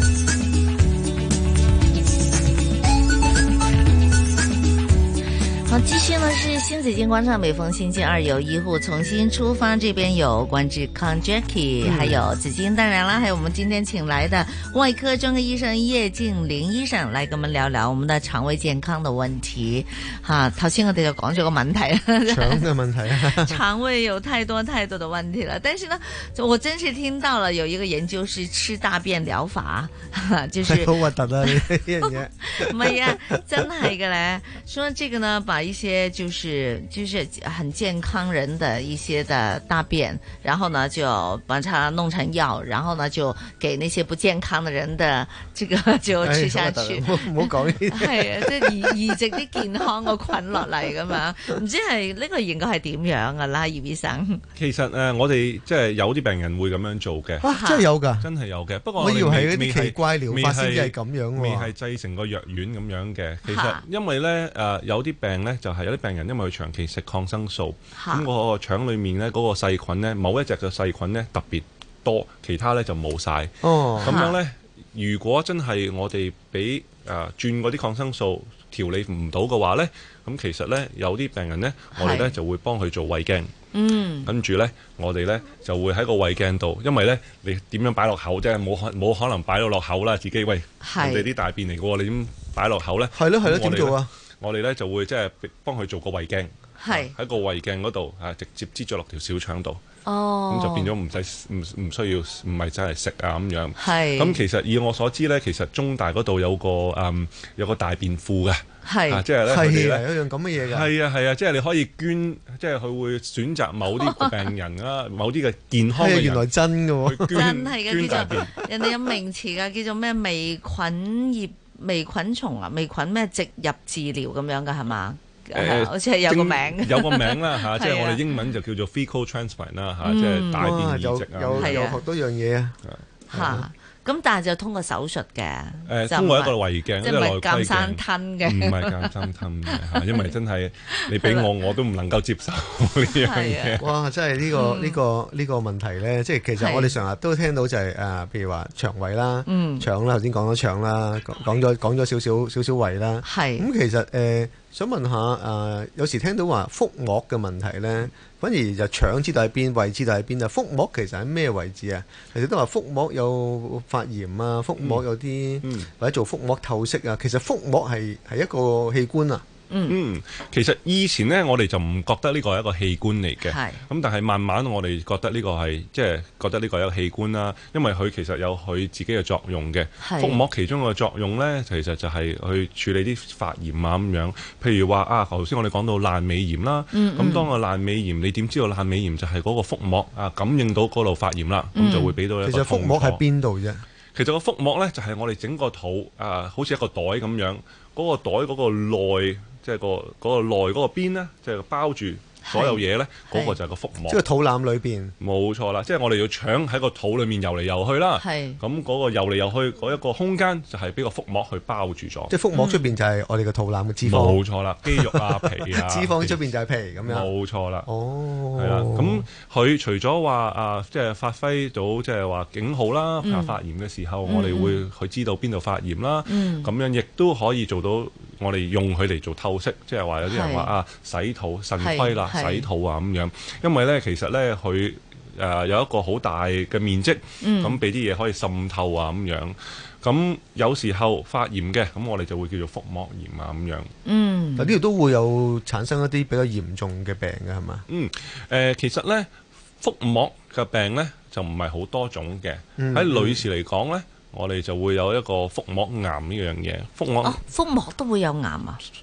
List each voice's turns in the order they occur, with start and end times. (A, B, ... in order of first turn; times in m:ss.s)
0:05.7-0:54.4 A
0:11.8-0:12.3 B
0:22.3-0:23.6 B
0:30.6-0:33.5 B
0:46.2-0:49.2 B
0:54.6-0:57.5 C
0:57.4-0:58.3 B
0:57.4-0:57.9 A
0:58.2-1:23.5 C
0:59.0-1:01.7 B
1:03.4-1:03.8 A
1:08.0-1:08.3 A
1:13.6-1:14.2 B
1:14.0-1:14.4 A
1:22.0-1:22.4 A
1:23.7-1:24.3 A
1:24.2-1:39.8 C
1:30.8-1:31.3 A
1:33.1-1:34.1 B
1:36.8-1:37.2 A
1:40.0-1:40.9 A
1:40.5-1:56.5 C
1:43.8-1:44.4 A
1:48.8-1:49.2 A
1:49.4-1:50.9 B
1:54.0-1:54.4 A
1:56.0-1:57.4 B
1:57.0-1:58.6 C
1:57.3-2:08.2 A
2:05.5-2:12.0 C
2:10.0-2:10.8 A
2:10.6-2:13.7 B
2:11.6-2:12.0 A
2:13.3-2:20.0 A
2:15.9-2:23.9 C
2:20.9-2:21.5 A
2:23.2-2:23.8 A
2:23.8-2:49.4 B
2:24.5-2:25.0 A
2:26.6-2:27.0 A
2:29.5-2:29.9 A
2:33.2-2:33.7 A
2:45.6-2:45.9 C
2:49.7-2:50.0 A
2:49.9-3:13.2 C
2:53.4-2:53.8 A
3:00.0-3:00.4 A
3:06.9-3:07.5 A
3:11.8-3:12.2 A
3:12.4-3:13.8 B
3:14.1-3:24.2 C
3:22.4-3:23.6 A
3:24.1-3:25.1 B
3:25.2-3:32.3 C
3:28.2-3:28.6 A
3:32.3-3:37.3 B
3:32.5-3:33.0 A
3:34.0-3:36.4 C
3:37.0-3:37.9 C
3:37.8-3:39.2 B
3:38.6-4:03.9 C
3:43.2-3:43.6 A
3:44.2-3:44.8 A
3:46.3-3:46.7 A
3:50.2-3:50.7 A
3:51.8-3:52.7 A
3:57.4-3:57.8 A
4:04.0-4:04.8 A
4:04.6-4:07.8 B
4:07.9-4:17.4 C
4:12.8-4:13.4 B
4:17.2-4:18.8 A